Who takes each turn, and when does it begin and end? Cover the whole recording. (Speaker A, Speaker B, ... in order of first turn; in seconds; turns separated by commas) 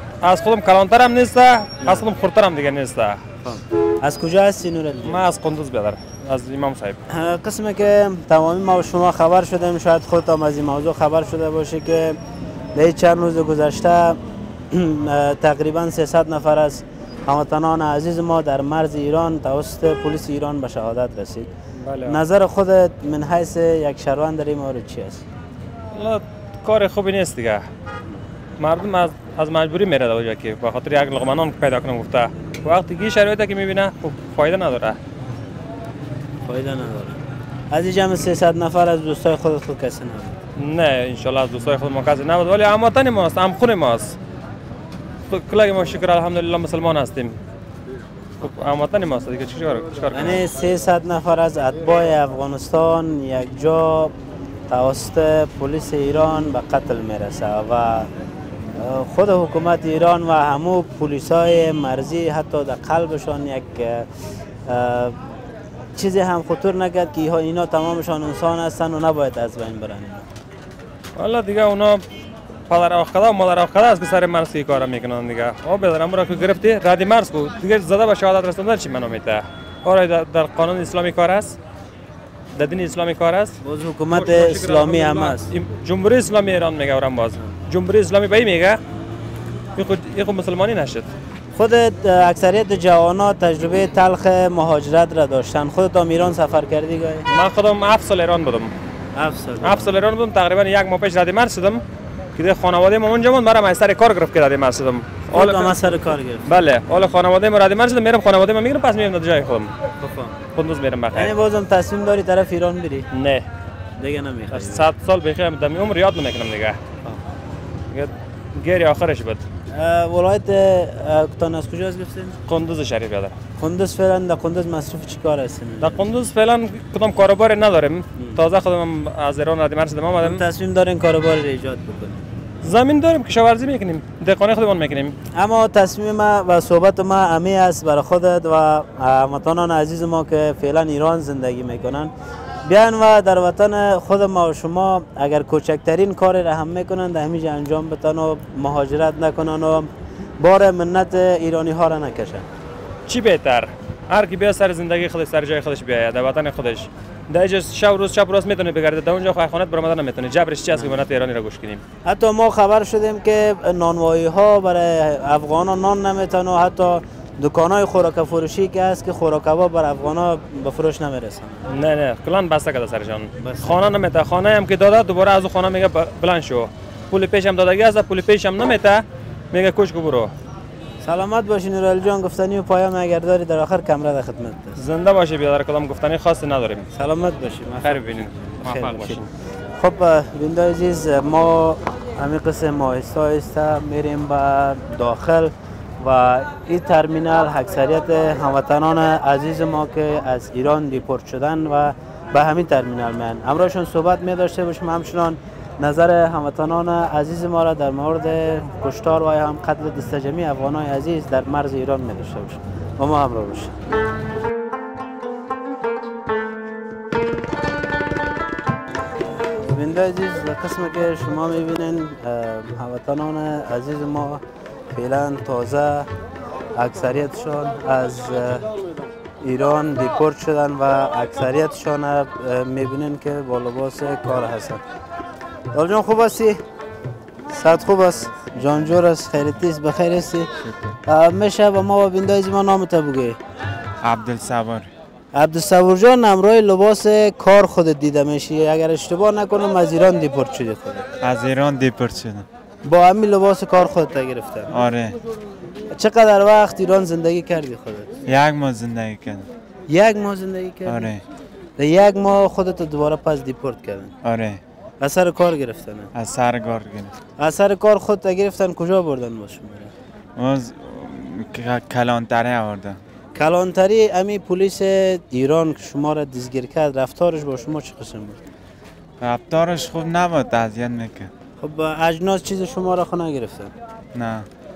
Speaker A: 0.2-3.2, Speaker B: 3.4-5.2, Speaker A: 5.1-7.0, Speaker B: 7.1-12.2, Speaker B: 12.8-14.2, Speaker B: 14.7-21.5, Speaker A: 21.8-22.2, Speaker B: 22.1-25.2, Speaker A: 25.9-27.7, Speaker A: 28.6-35.0, Speaker B: 36.5-40.4, Speaker A: 40.6-44.2, Speaker A: 45.3-47.4, Speaker A: 48.4-50.5, Speaker B: 50.1-54.1, Speaker B: 54.7-58.1, Speaker B: 58.8-64.1, Speaker B: 64.7-65.2, Speaker B: 66.0-70.2, Speaker A: 71.2-72.0, Speaker A: 72.7-81.6, Speaker A: 82.6-83.6, Speaker B: 83.6-85.5, Speaker A: 84.1-88.8, Speaker A: 89.8-91.1, Speaker B: 91.5-97.3, Speaker A: 97.3-98.7, Speaker B: 99.2-100.0, Speaker A: 99.6-101.8, Speaker A: 102.3-105.9, Speaker B: 105.3-106.5, Speaker A: 106.5-109.7, Speaker B: 110.0-110.4, Speaker A: 110.5-111.3, Speaker B: 111.1-113.1, Speaker A: 113.1-113.5, Speaker B: 114.0-114.9, Speaker A: 114.5-116.8, Speaker A: 117.9-119.4, Speaker B: 119.7-122.4, Speaker A: 122.5-123.4, Speaker B: 123.6-126.0, Speaker A: 125.8-130.4, Speaker B: 130.2-132.2, Speaker A: 132.6-135.1, Speaker B: 135.3-142.1, Speaker B: 142.7-152.5, Speaker A: 153.1-161.8, Speaker B: 162.1-171.7, Speaker A: 171.7-180.3, Speaker B: 173.4-173.7, Speaker B: 181.0-184.8, Speaker A: 184.8-186.9, Speaker B: 186.9-189.2, Speaker A: 187.8-189.3, Speaker B: 189.8-213.7, Speaker B: 219.6-224.4, Speaker B: 224.9-226.1, Speaker B: 226.8-228.7, Speaker B: 229.4-234.8, Speaker B: 235.7-236.6, Speaker B: 237.5-240.5, Speaker C: 240.6-240.9, Speaker B: 241.1-243.4, Speaker C: 244.0-244.9, Speaker B: 245.3-251.1, Speaker C: 251.2-252.5, Speaker B: 252.8-254.7, Speaker C: 254.7-255.2, Speaker B: 255.9-258.1, Speaker C: 258.3-259.5, Speaker B: 259.9-261.1, Speaker C: 260.9-261.2, Speaker B: 261.8-264.1, Speaker C: 264.2-264.6, Speaker B: 265.0-266.1, Speaker C: 266.1-267.1, Speaker B: 267.4-269.9, Speaker C: 270.4-273.0, Speaker B: 273.4-278.4, Speaker C: 279.2-281.3, Speaker B: 281.6-283.7, Speaker C: 284.1-284.5